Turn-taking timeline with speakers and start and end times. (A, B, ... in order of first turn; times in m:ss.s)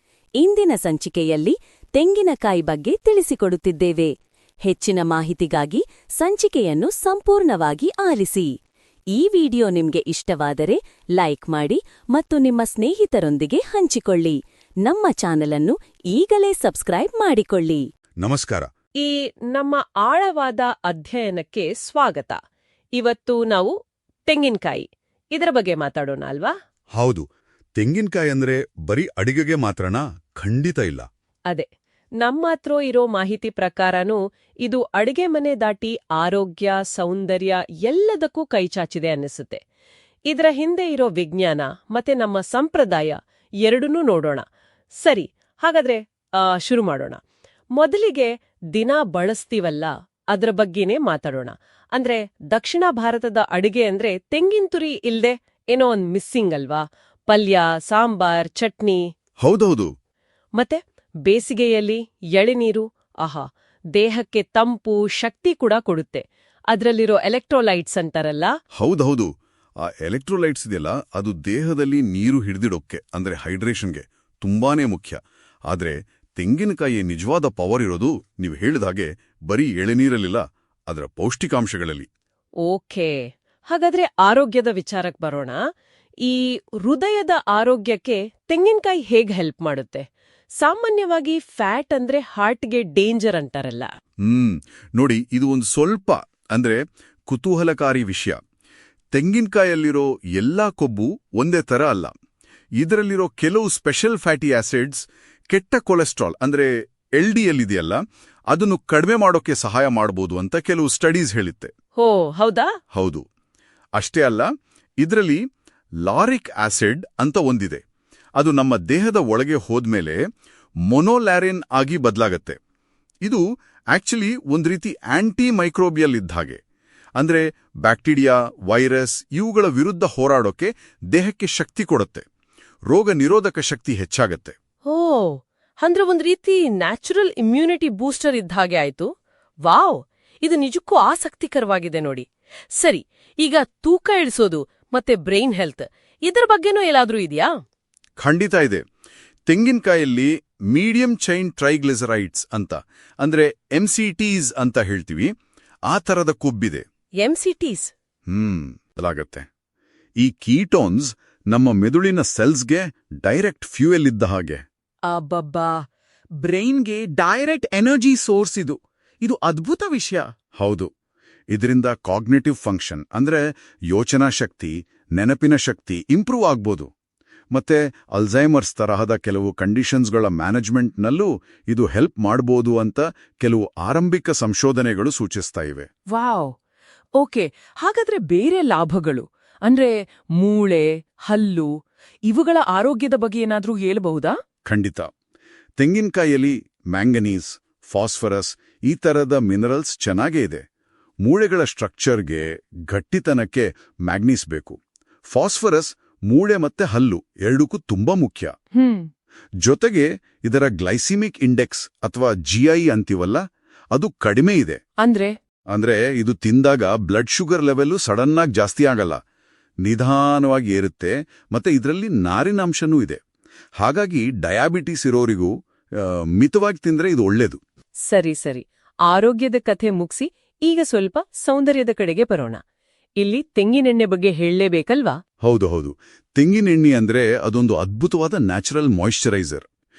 0:00.4-0:04.1 A
0:04.6-0:08.5 A
0:09.1-0:17.8 A
0:18.2-0:18.7 B
0:19.0-0:22.4 C
0:23.0-0:23.7 C
0:24.3-0:26.5 C
0:27.0-0:27.3 B
0:27.8-0:31.1 B
0:32.2-0:39.6 C
0:40.3-0:44.4 C
0:45.0-0:47.2 C
0:47.8-0:59.0 C
0:59.4-0:59.9 B
1:00.6-1:03.4 C
1:04.0-1:08.5 C
1:08.8-1:09.3 B
1:09.8-1:15.2 B
1:15.7-1:22.1 B
1:22.6-1:23.2 C
1:23.7-1:25.6 C
1:26.3-1:30.1 C
1:30.6-1:33.9 C
1:34.2-1:38.4 B
1:39.1-1:42.1 B
1:42.8-1:51.7 B
1:52.0-1:52.7 C
1:52.9-1:53.2 B
1:54.0-1:54.5 B
1:55.0-1:55.4 B
1:56.0-1:57.8 B
1:58.4-2:00.2 B
2:00.9-2:02.6 B
2:03.2-2:06.6 B
2:07.2-2:12.2 B
2:12.9-2:14.6 B
2:14.9-2:19.1 C
2:19.7-2:22.3 C
2:22.8-2:27.5 C
2:28.2-2:28.8 B
2:29.5-2:35.3 B
2:35.9-2:36.8 B
2:37.2-2:37.9 C
2:38.3-2:39.4 B
2:40.2-2:44.6 B
2:45.1-2:45.7 D
2:46.4-2:50.3 D
2:50.6-2:50.9 B
2:51.5-2:56.9 B
2:57.5-3:05.9 B
3:06.1-3:06.6 C
3:07.2-3:11.7 C
3:12.3-3:14.4 C
3:14.7-3:15.1 B
3:15.8-3:20.6 B
3:21.2-3:28.5 B
3:28.8-3:29.1 C
3:29.6-3:33.4 B
3:33.9-3:34.8 B
3:35.0-3:35.4 C
3:35.7-3:39.2 B
3:39.8-3:43.2 B
3:43.8-3:47.6 B
3:48.1-3:52.6 C
3:53.2-3:55.2 C
3:55.4-3:59.6 B